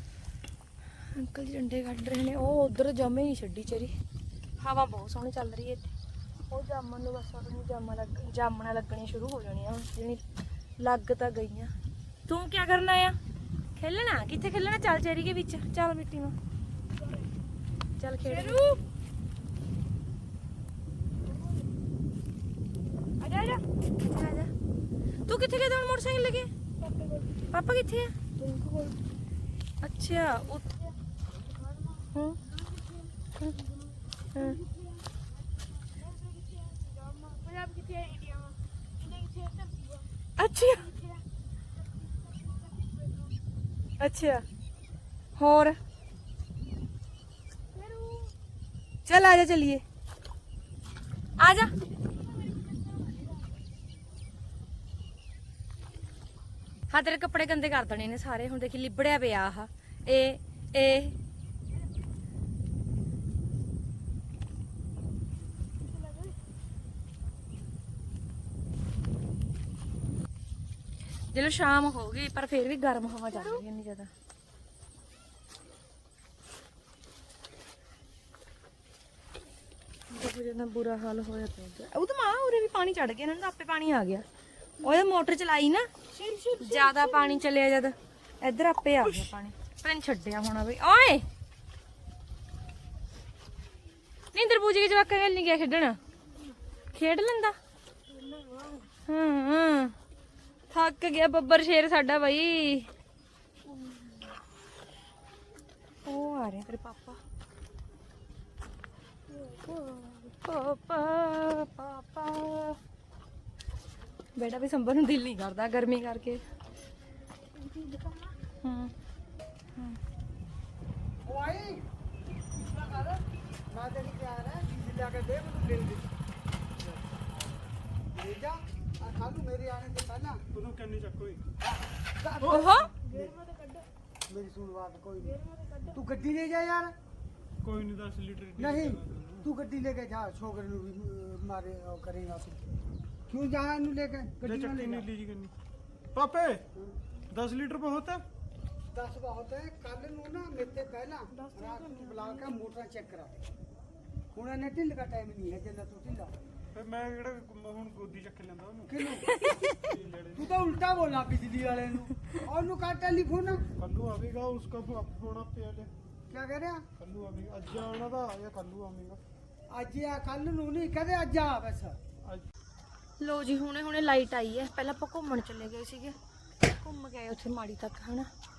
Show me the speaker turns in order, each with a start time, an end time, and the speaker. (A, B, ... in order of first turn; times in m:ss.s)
0:01.1-0:03.9 A
0:04.6-0:05.9 A
0:06.5-0:10.2 A
0:10.8-0:11.7 A
0:12.3-0:13.2 A
0:13.8-0:16.4 A
0:17.0-0:17.3 B
0:18.0-0:18.8 A
0:18.5-0:18.8 B
0:21.4-0:21.6 B
0:23.2-0:24.5 A
0:23.3-0:23.6 B
0:25.2-0:26.5 A
0:26.8-0:27.4 B
0:27.5-0:29.0 A
0:29.8-0:30.7 A
0:31.6-0:33.1 B
0:32.1-0:32.4 A
0:34.3-0:34.6 A
0:34.6-0:35.1 B
0:35.8-0:40.1 B
0:40.4-0:41.0 A
0:41.0-0:41.2 B
0:41.9-0:43.4 B
0:44.0-0:44.4 A
0:45.4-0:45.8 A
0:47.7-0:48.4 B
0:49.1-0:49.8 A
0:51.4-0:51.7 A
0:52.3-0:53.4 B
0:56.9-1:01.2 A
1:05.8-1:06.4 B
1:11.3-1:14.1 A
1:20.1-1:24.2 A
1:24.8-1:25.9 A
1:26.1-1:27.0 B
1:26.6-1:31.3 A
1:34.3-1:36.0 A
1:36.9-1:37.6 A
1:38.1-1:40.0 A
1:38.3-1:38.8 B
1:40.7-1:42.9 A
1:43.7-1:44.4 A
1:46.0-1:47.2 A
1:49.3-1:52.8 A
1:54.4-1:56.4 A
1:57.6-1:58.3 B
1:58.6-1:58.9 A
2:01.2-2:01.8 C
2:02.5-2:06.1 C
2:08.1-2:10.5 C
2:10.5-2:11.4 D
2:12.2-2:13.4 C
2:12.4-2:13.0 A
2:13.0-2:13.9 B
2:14.3-2:17.0 C
2:15.3-2:16.0 B
2:17.6-2:19.5 D
2:18.6-2:22.6 C
2:23.3-2:25.1 C
2:24.4-2:25.5 D
2:26.2-2:26.7 D
2:27.3-2:28.2 D
2:28.9-2:33.4 C
2:31.3-2:32.6 A
2:34.3-2:36.3 C
2:36.7-2:39.0 D
2:38.9-2:39.3 C
2:39.2-2:40.0 A
2:39.9-2:40.5 D
2:40.3-2:43.7 C
2:43.8-2:45.9 D
2:46.3-2:46.9 C
2:47.0-2:49.2 D
2:49.7-2:52.0 C
2:53.2-2:58.3 A